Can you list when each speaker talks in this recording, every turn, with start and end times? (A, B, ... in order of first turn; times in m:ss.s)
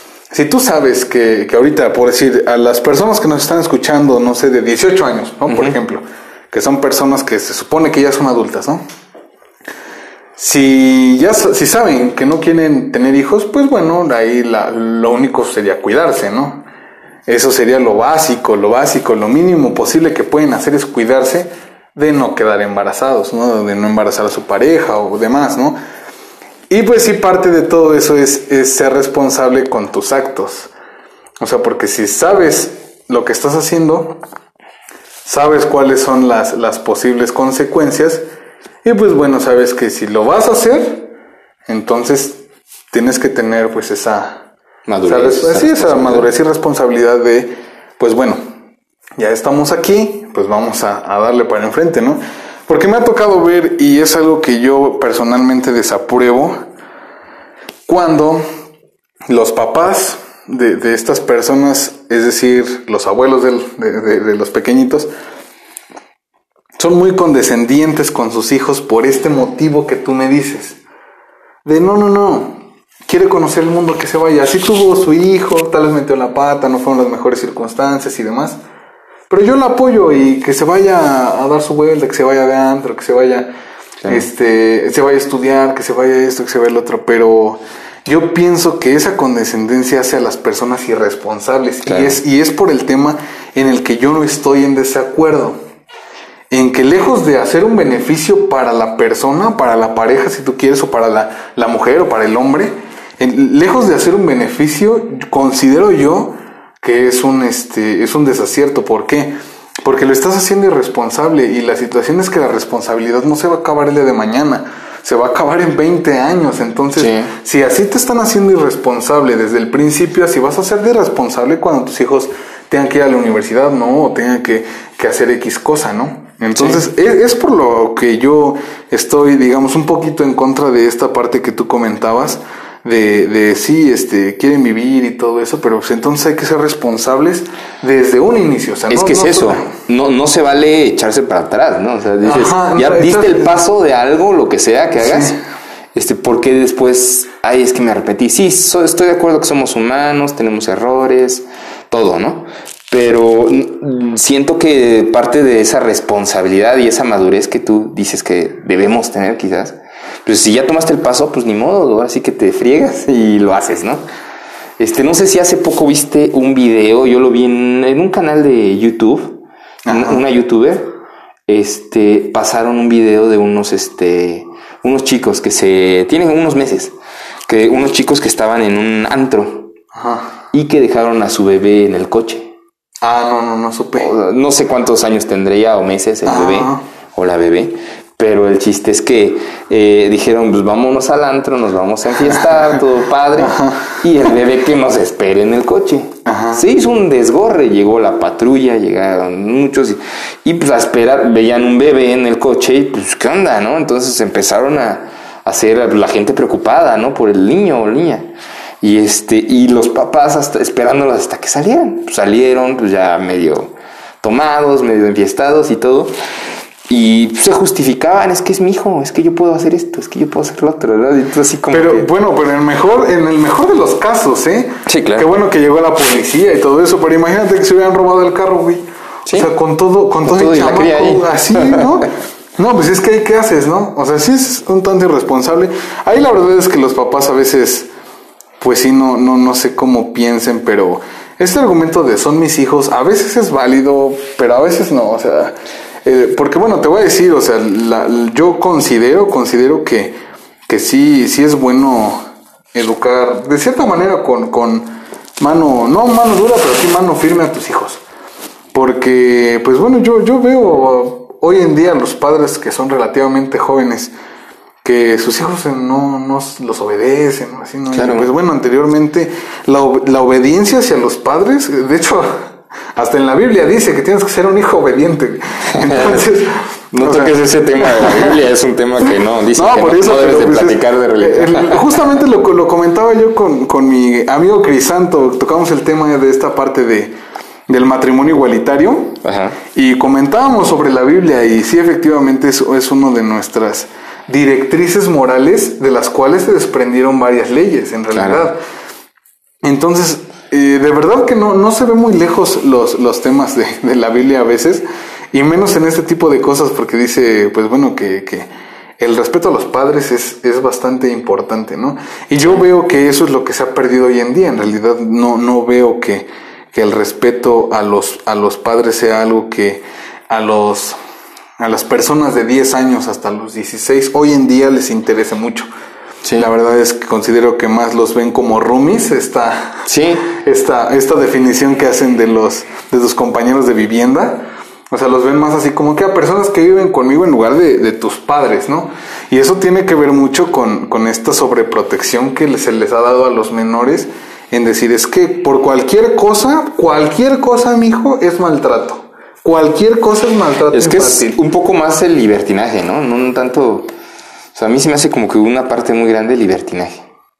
0:00.3-0:08.8 A
0:05.5-0:05.7 B
0:10.4-0:16.6 A
0:17.3-0:25.8 A
0:26.7-0:30.7 A
0:31.4-0:34.2 A
0:35.2-0:38.2 A
0:38.8-0:41.1 A
0:41.7-0:42.4 A
0:42.9-0:44.4 A
0:44.9-0:46.3 B
0:45.0-0:48.4 A
0:49.2-0:56.6 A
0:57.9-0:58.4 A
0:59.3-1:05.1 A
1:06.8-1:10.8 A
1:11.6-1:18.6 A
1:19.3-1:23.5 A
1:24.1-1:35.6 A
1:31.8-1:32.2 B
1:36.5-2:19.7 A
1:57.0-1:57.3 B
2:18.9-2:25.4 B
2:22.2-2:23.5 A
2:25.0-2:25.4 A
2:25.9-2:44.0 B
2:44.8-2:50.9 B
2:49.8-2:50.2 A
2:51.5-2:56.9 B
2:57.5-2:59.7 B
2:59.9-3:00.4 A
3:00.5-3:02.5 B
3:03.0-3:04.1 A
3:04.0-3:28.3 B
3:06.2-3:06.8 A
3:12.3-3:12.8 A
3:13.4-3:14.0 A
3:16.2-3:16.6 A
3:28.8-3:36.1 B
3:36.9-3:42.1 B
3:41.7-3:57.9 A
3:44.8-3:45.3 B
3:50.2-3:52.0 B
3:58.6-4:10.1 A
4:10.7-4:12.2 A
4:12.7-4:18.0 A
4:18.7-4:24.1 A
4:24.8-4:32.4 A
4:27.9-4:28.3 B
4:33.0-4:38.4 A
4:35.9-4:36.3 B
4:36.9-4:42.0 B
4:39.0-4:47.1 A
4:47.7-4:49.2 A
4:49.2-4:49.6 B
4:49.7-4:58.6 A
4:58.1-4:58.4 B
4:59.6-5:08.5 A
5:09.0-5:21.0 A
5:21.6-5:25.7 A
5:26.4-5:51.4 A
5:29.9-5:30.2 B
5:50.7-5:53.9 B
5:54.5-5:57.0 B